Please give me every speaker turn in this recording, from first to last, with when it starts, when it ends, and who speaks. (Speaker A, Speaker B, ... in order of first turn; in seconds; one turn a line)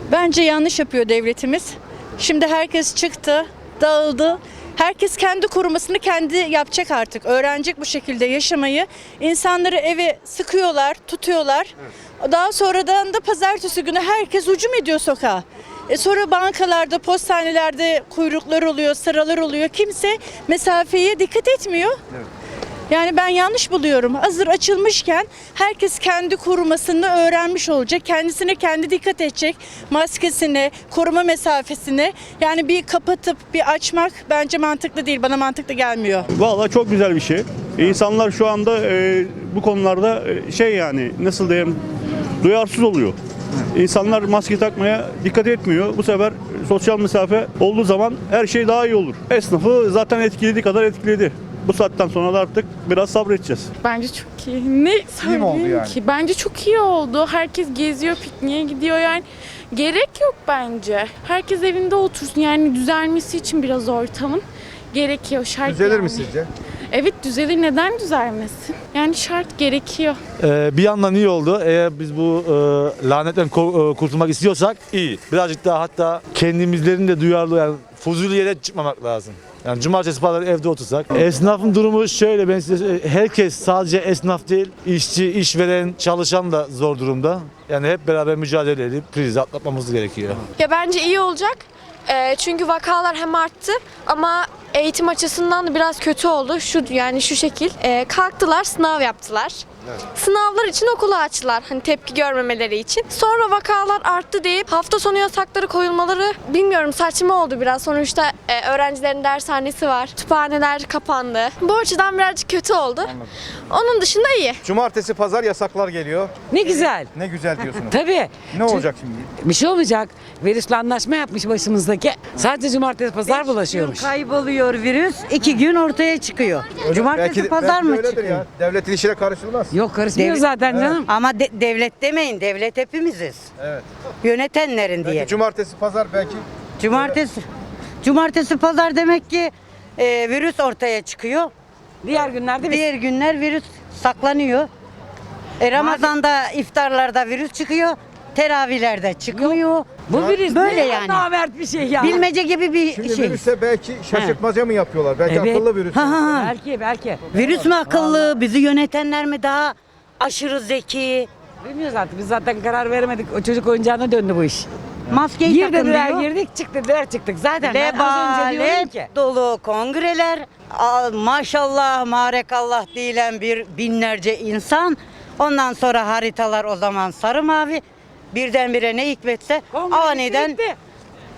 Speaker A: 0.1-21.9
Speaker A: 22.9-36.3
Speaker B: 36.3-41.8
Speaker B: 42.4-43.2
Speaker B: 43.7-53.7
Speaker C: 53.9-64.4
Speaker D: 55.2-56.0
Speaker C: 64.9-65.9
Speaker D: 65.6-66.5
Speaker C: 67.0-70.2
Speaker E: 70.4-90.4
Speaker F: 90.6-113.1
Speaker D: 113.0-113.3
Speaker F: 113.7-114.6
Speaker D: 114.6-118.0
Speaker G: 116.5-117.1
Speaker G: 117.9-118.8
Speaker D: 118.5-119.3
Speaker G: 119.4-124.1
Speaker H: 123.3-128.4
Speaker D: 126.8-129.8
Speaker G: 129.7-131.0
Speaker H: 130.1-130.5
Speaker D: 130.7-131.0
Speaker H: 131.0-133.5
Speaker D: 133.6-133.9
Speaker H: 134.2-135.4
Speaker D: 135.0-137.2
Speaker H: 136.8-137.4
Speaker H: 138.0-141.5
Speaker G: 142.0-142.8
Speaker H: 142.6-144.7
Speaker H: 145.6-151.3
Speaker G: 145.8-146.0
Speaker G: 150.1-152.2
Speaker D: 150.1-150.5
Speaker H: 152.0-153.4
Speaker D: 152.9-156.2
Speaker G: 155.3-155.6
Speaker H: 155.9-156.6
Speaker G: 156.4-158.3
Speaker H: 157.3-161.3
Speaker G: 161.6-164.7
Speaker H: 165.1-166.3
Speaker G: 165.5-169.1
Speaker H: 167.6-180.6
Speaker G: 179.7-180.8